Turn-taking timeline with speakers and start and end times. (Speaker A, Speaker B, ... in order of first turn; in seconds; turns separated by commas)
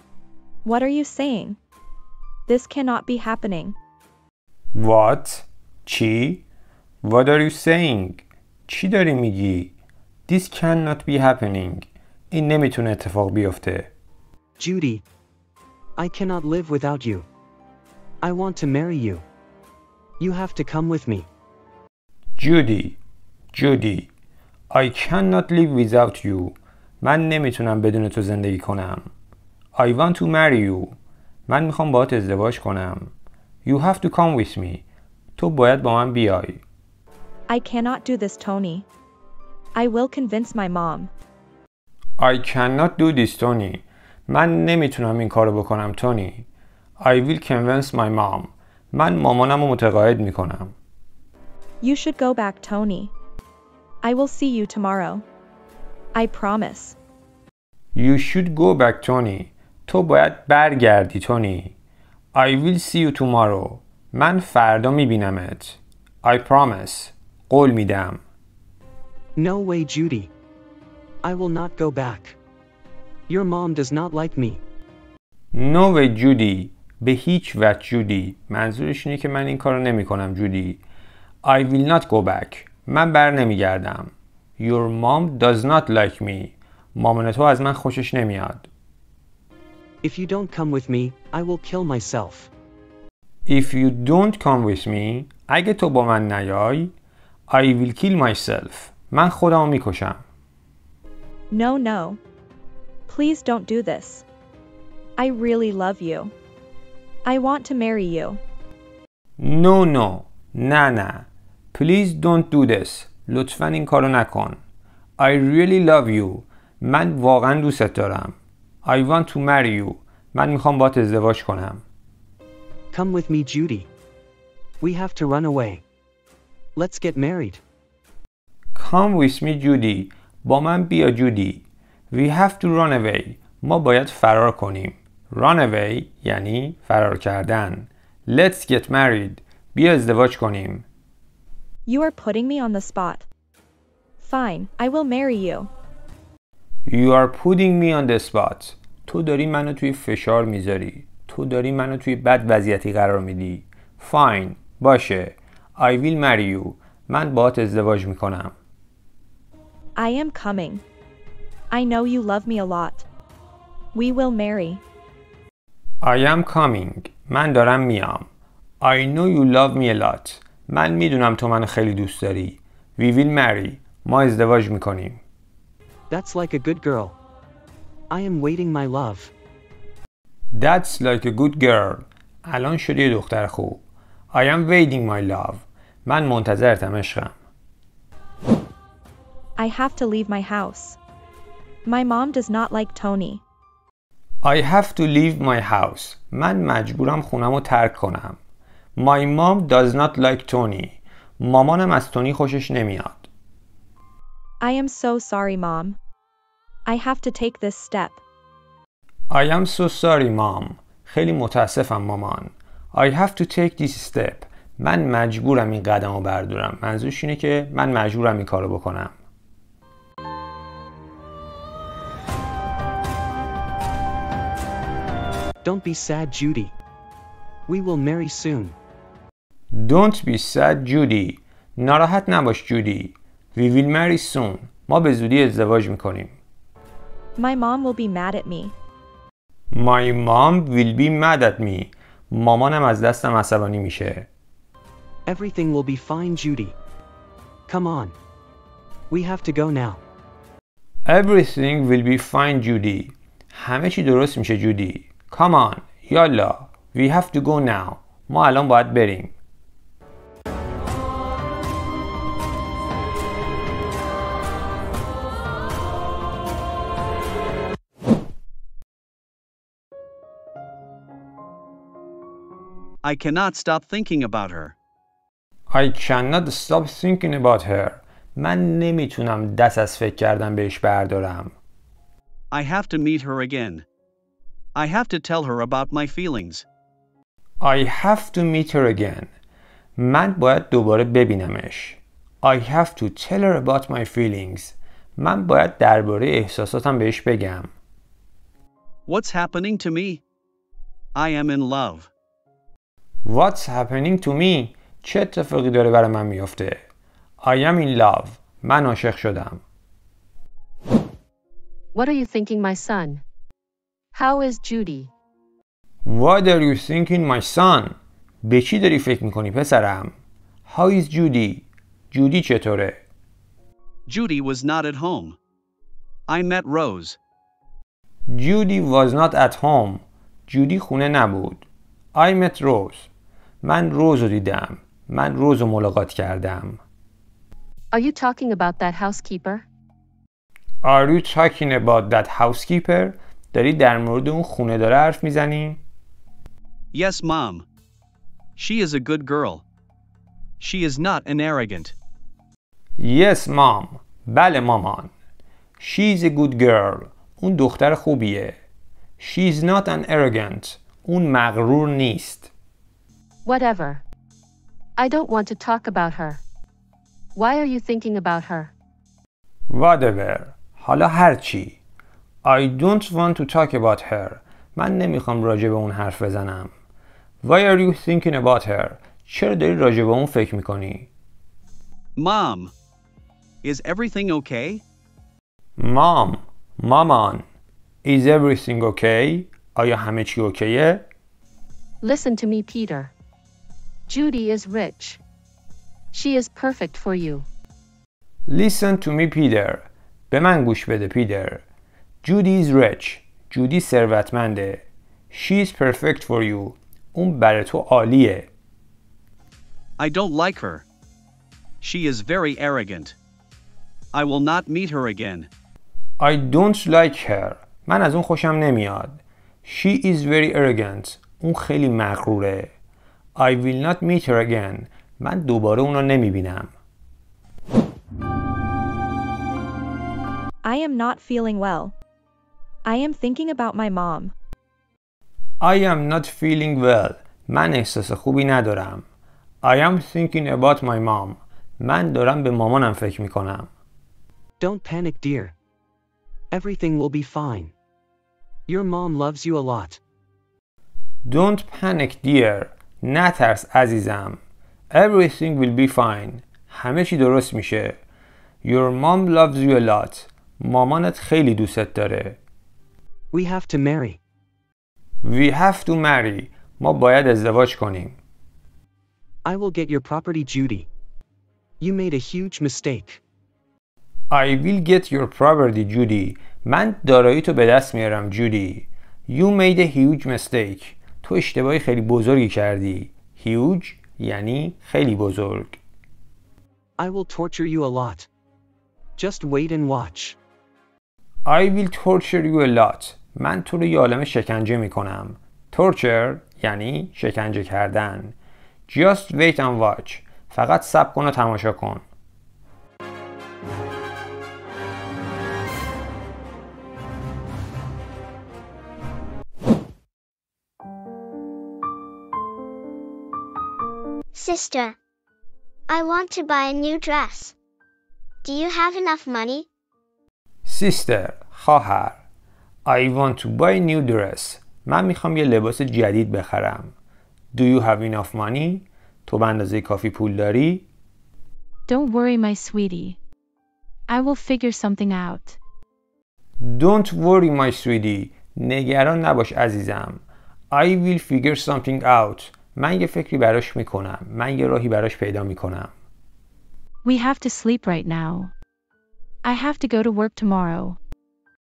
Speaker A: 0.6-1.6, Speaker A: 2.5-3.8, Speaker B: 4.7-6.4, Speaker B: 7.0-9.7, Speaker B: 10.3-13.9, Speaker C: 14.6-15.0, Speaker C: 16.0-17.3, Speaker C: 18.2-19.2, Speaker C: 20.2-21.3, Speaker B: 22.4-23.0, Speaker B: 23.5-24.1, Speaker B: 24.7-29.1, Speaker B: 29.8-30.9, Speaker B: 31.5-33.1, Speaker B: 33.6-34.8, Speaker B: 35.4-36.6, Speaker A: 37.5-38.9, Speaker A: 39.7-41.1, Speaker B: 42.2-46.5, Speaker B: 47.0-50.7, Speaker A: 51.8-53.1, Speaker A: 54.0-55.2, Speaker A: 56.1-57.0, Speaker B: 58.0-61.8, Speaker B: 62.3-68.2, Speaker C: 69.4-70.3, Speaker C: 71.2-72.4, Speaker C: 73.3-74.6, Speaker B: 75.5-80.8, Speaker B: 81.4-88.7, Speaker C: 90.0-92.5, Speaker B: 93.5-96.9, Speaker B: 97.5-100.2, Speaker A: 101.5-102.2, Speaker A: 103.1-104.2, Speaker A: 105.2-106.3, Speaker A: 107.2-108.4, Speaker B: 109.4-114.6, Speaker B: 115.2-121.8, Speaker C: 122.9-123.9, Speaker C: 124.8-125.8, Speaker C: 126.8-127.6, Speaker B: 128.8-140.9, Speaker A: 141.9-143.3, Speaker A: 144.2-145.7, Speaker B: 146.9-158.5, Speaker A: 160.0-160.8, Speaker A: 161.7-163.1, Speaker A: 163.9-164.8, Speaker B: 166.0-168.3, Speaker B: 168.8-175.2, Speaker C: 176.1-177.2, Speaker C: 178.1-179.3, Speaker B: 180.5-187.3, Speaker A: 189.6-191.0, Speaker A: 191.8-193.4, Speaker B: 194.4-198.4, Speaker B: 199.0-203.3, Speaker A: 204.6-206.0, Speaker A: 206.9-208.2, Speaker B: 209.3-219.2, Speaker C: 225.6-226.7, Speaker C: 227.7-228.8, Speaker B: 229.7-236.4, Speaker A: 237.4-238.8, Speaker B: 239.7-244.3, Speaker C: 245.3-246.8, Speaker C: 247.7-248.2, Speaker C: 249.1-250.0, Speaker B: 251.1-259.3, Speaker D: 273.0-274.8, Speaker B: 275.7-281.6, Speaker D: 282.5-283.9, Speaker D: 284.8-286.6, Speaker B: 287.6-289.3, Speaker B: 290.0-297.7, Speaker D: 299.1-300.2, Speaker D: 301.1-302.1, Speaker B: 303.2-306.8, Speaker B: 307.4-309.6, Speaker E: 311.9-313.2, Speaker E: 314.1-315.1, Speaker B: 316.1-320.1, Speaker B: 320.7-323.0, Speaker D: 324.1-325.4, Speaker D: 326.3-327.2, Speaker B: 328.3-333.1, Speaker B: 333.6-336.8, Speaker E: 337.9-339.7, Speaker B: 340.8-345.8, Speaker D: 346.9-347.7, Speaker D: 348.6-349.6, Speaker D: 350.6-351.9, Speaker B: 353.0-355.1, Speaker B: 355.8-358.6, Speaker B: 359.2-362.5, Speaker E: 363.4-364.0, Speaker E: 365.0-366.4, Speaker E: 367.4-368.7, Speaker B: 369.7-371.8, Speaker B: 372.4-376.7, Speaker B: 377.4-381.1, Speaker D: 382.2-382.7, Speaker D: 383.6-384.8, Speaker B: 385.8-387.4, Speaker B: 388.0-391.1, Speaker E: 392.0-393.1, Speaker E: 394.1-395.2, Speaker E: 396.1-397.5, Speaker B: 398.5-401.6, Speaker B: 402.2-408.5, Speaker D: 410.0-410.9, Speaker D: 411.8-413.2, Speaker D: 414.1-415.5, Speaker B: 416.2-422.7, Speaker B: 423.4-426.7, Speaker A: 430.6-431.9, Speaker A: 432.9-434.3, Speaker B: 435.6-439.1, Speaker B: 439.6-443.7, Speaker C: 444.6-445.5, Speaker C: 446.5-447.7, Speaker C: 448.7-450.0, Speaker B: 451.3-454.4, Speaker B: 454.9-458.0, Speaker B: 458.6-462.4, Speaker C: 463.3-464.2, Speaker B: 465.2-468.2, Speaker C: 469.4-470.9, Speaker C: 471.8-473.2, Speaker B: 474.3-485.8, Speaker C: 487.0-488.3, Speaker C: 489.2-490.4, Speaker B: 491.5-498.4, Speaker B: 498.9-502.1, Speaker F: 514.4-515.0, Speaker F: 515.9-517.5, Speaker F: 518.4-519.7, Speaker B: 520.7-522.2, Speaker B: 522.9-526.9, Speaker B: 527.5-530.9, Speaker G: 531.9-533.2, Speaker G: 534.1-535.6, Speaker B: 536.6-545.9, Speaker G: 547.0-548.5, Speaker G: 549.4-551.0